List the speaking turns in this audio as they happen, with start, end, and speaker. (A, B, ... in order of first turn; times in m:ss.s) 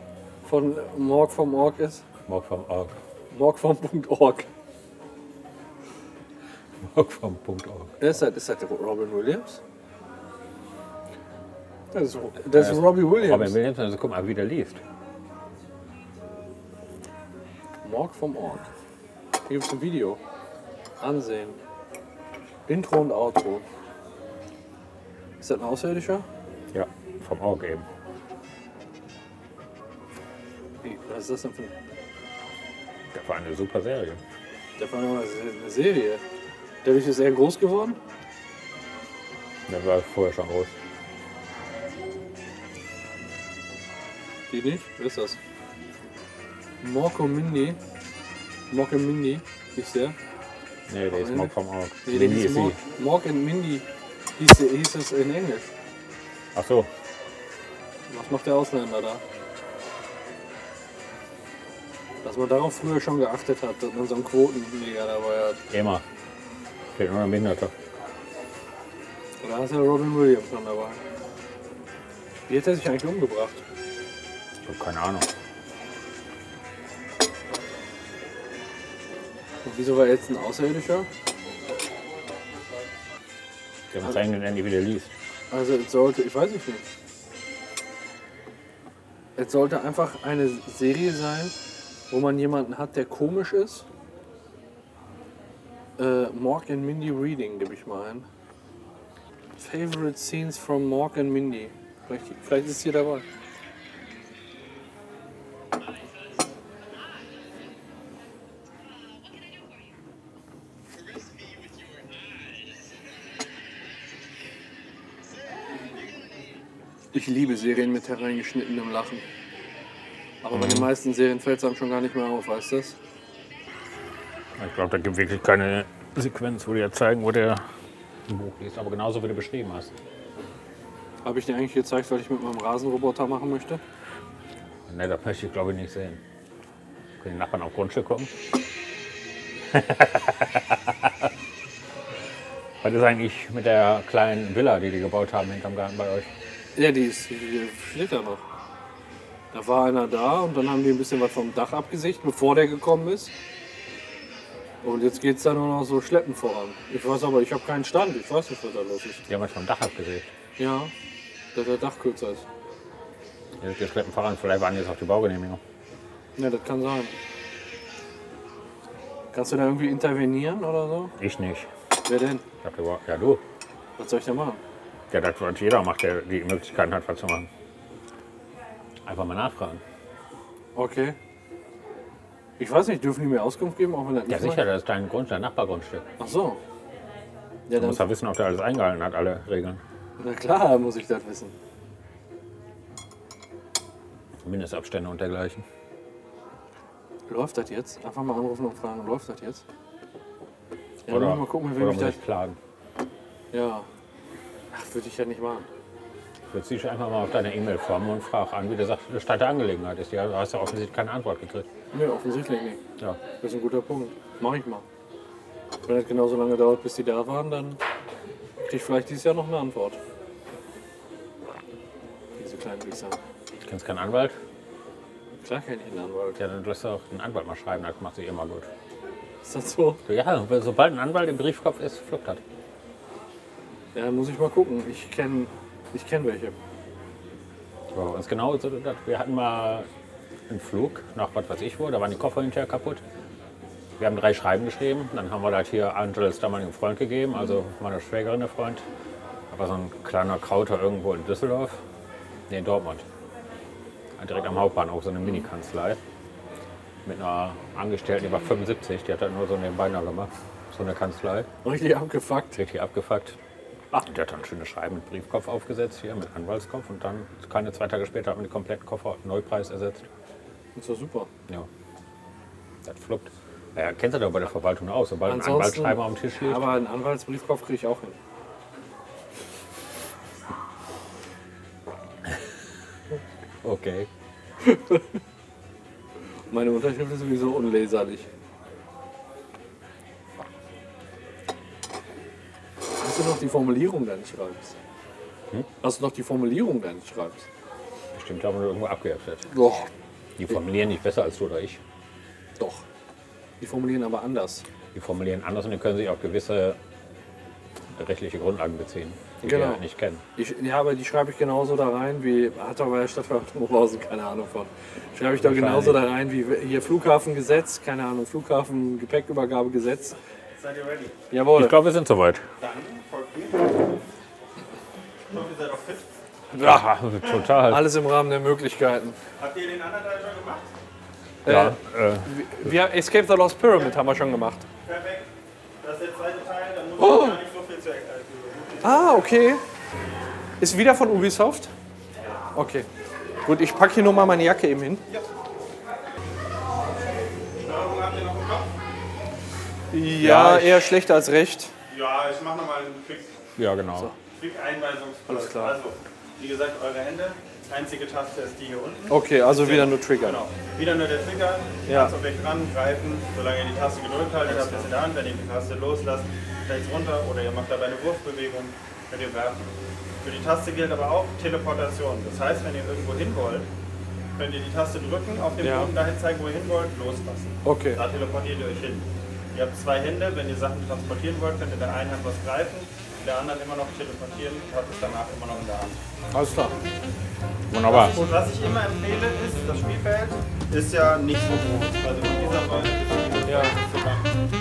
0:00.4-0:02.0 A
0:02.3-0:03.0 B
0:03.3-0:04.5 A
0:06.8-0:08.0 B
0:08.0-0:09.6 A
0:11.9-0:13.6 A
0:12.5-0:14.8 B
0:17.8-0:18.7 A
0:19.5-0:20.2 A
0:21.0-0:21.6 A
0:22.7-0:23.6 A
0:25.4-0:26.3 A
0:26.7-0:27.8 B
0:30.8-0:31.7 A
0:33.1-0:34.2 B
0:34.8-0:36.2 A
0:36.8-0:38.0 A
0:39.7-0:40.7 B
0:44.5-0:45.4 A
0:46.8-0:47.8 A
0:48.7-0:50.2 A
0:50.9-0:52.8 B
0:51.1-0:51.5 A
0:52.0-0:53.8 A
0:54.4-0:55.7 A
0:56.6-0:56.9 B
0:58.1-0:59.2 A
1:02.2-1:05.6 A
1:05.7-1:06.0 B
1:07.0-1:07.7 B
1:09.4-1:11.0 A
1:12.5-1:13.6 A
1:14.6-1:15.3 B
1:19.6-1:21.1 A
1:23.9-1:25.1 B
1:25.5-1:26.9 A
1:29.4-1:31.6 A
1:32.1-1:33.9 A
1:36.0-1:38.3 A
1:39.6-1:43.2 A
1:57.1-1:59.2 A
2:00.4-2:03.0 A
2:00.5-2:00.9 B
2:04.6-2:07.6 B
2:08.3-2:09.9 B
2:11.2-2:13.8 A
2:14.9-2:16.2 B
2:17.2-2:18.3 B
2:19.7-2:21.1 B
2:22.8-2:26.3 B
2:26.8-2:28.4 A
2:29.5-2:33.3 A
2:34.8-2:39.2 A
2:39.3-2:40.3 B
2:40.6-2:40.9 A
2:41.5-2:42.4 A
2:43.6-2:45.6 B
2:46.4-2:47.2 A
2:49.3-2:51.1 A
2:51.2-2:51.7 B
2:52.0-2:52.4 A
2:52.6-2:53.4 B
2:54.0-2:54.6 A
2:55.1-2:57.5 B
2:59.1-2:59.8 B
3:00.8-3:01.2 A
3:02.6-3:04.6 A
3:04.3-3:06.0 B
3:06.2-3:06.6 A
3:07.7-3:08.1 A
3:07.8-3:09.8 B
3:10.2-3:11.6 A
3:14.4-3:15.6 B
3:17.3-3:19.6 A
3:21.1-3:22.2 A
3:21.1-3:22.6 B
3:23.5-3:23.9 A
3:24.7-3:25.7 A
3:26.5-3:31.7 B
3:31.9-3:32.8 A
3:33.4-3:34.8 A
3:35.9-3:37.8 A
3:38.6-3:40.0 A
3:42.4-3:43.2 A
3:43.6-3:44.4 B
3:45.4-3:46.4 A
3:46.4-3:48.7 B
3:49.4-3:50.0 A
3:50.1-3:52.4 B
3:53.9-3:56.6 A
3:57.9-3:59.9 B
4:00.5-4:03.0 B
4:04.0-4:08.8 B
4:09.5-4:11.8 B
4:12.5-4:13.0 B
4:14.2-4:16.0 B
4:17.0-4:21.5 B
4:21.6-4:22.6 A
4:22.6-4:23.4 B
4:24.0-4:30.1 B
4:30.8-4:31.3 A
4:32.8-4:36.7 B
4:35.3-4:38.2 A
4:43.6-4:44.1 B
4:44.6-4:45.0 A
4:46.5-4:48.3 A
4:53.0-4:54.8 A
4:55.8-4:57.5 A
4:58.1-4:59.5 B
4:59.5-4:59.9 A
5:00.4-5:01.8 B
5:02.6-5:02.8 A
5:03.6-5:04.6 A
5:04.9-5:06.8 B
5:08.0-5:10.2 B
5:09.4-5:09.8 A
5:10.4-5:20.2 A
5:15.4-5:16.1 B
5:20.6-5:21.2 C
5:21.3-5:21.8 A
5:21.6-5:22.4 B
5:22.6-5:23.9 C
5:25.3-5:26.1 C
5:26.5-5:28.0 B
5:27.6-5:29.2 A
5:29.4-5:30.7 C
5:31.4-5:34.7 A
5:31.5-5:32.4 B
5:34.8-5:35.3 C
5:35.8-5:39.3 C
5:37.0-5:37.4 A
5:38.8-5:39.6 A
5:40.6-5:41.7 A
5:42.5-5:42.9 A
5:43.4-5:45.0 A
5:47.6-5:48.7 C
5:49.9-5:51.7 A
5:50.2-5:50.9 B
5:51.9-5:53.4 C
5:53.6-5:54.1 B
5:54.4-6:09.7 C
5:55.3-5:55.8 A
5:59.1-6:00.4 A
6:01.9-6:02.2 A
6:04.5-6:04.9 A
6:10.2-6:13.7 C
6:14.4-6:26.0 C
6:15.6-6:15.9 A
6:17.6-6:18.0 A
6:26.3-6:26.8 A
6:27.7-6:28.3 B
6:27.8-6:34.3 C
6:33.5-6:33.8 A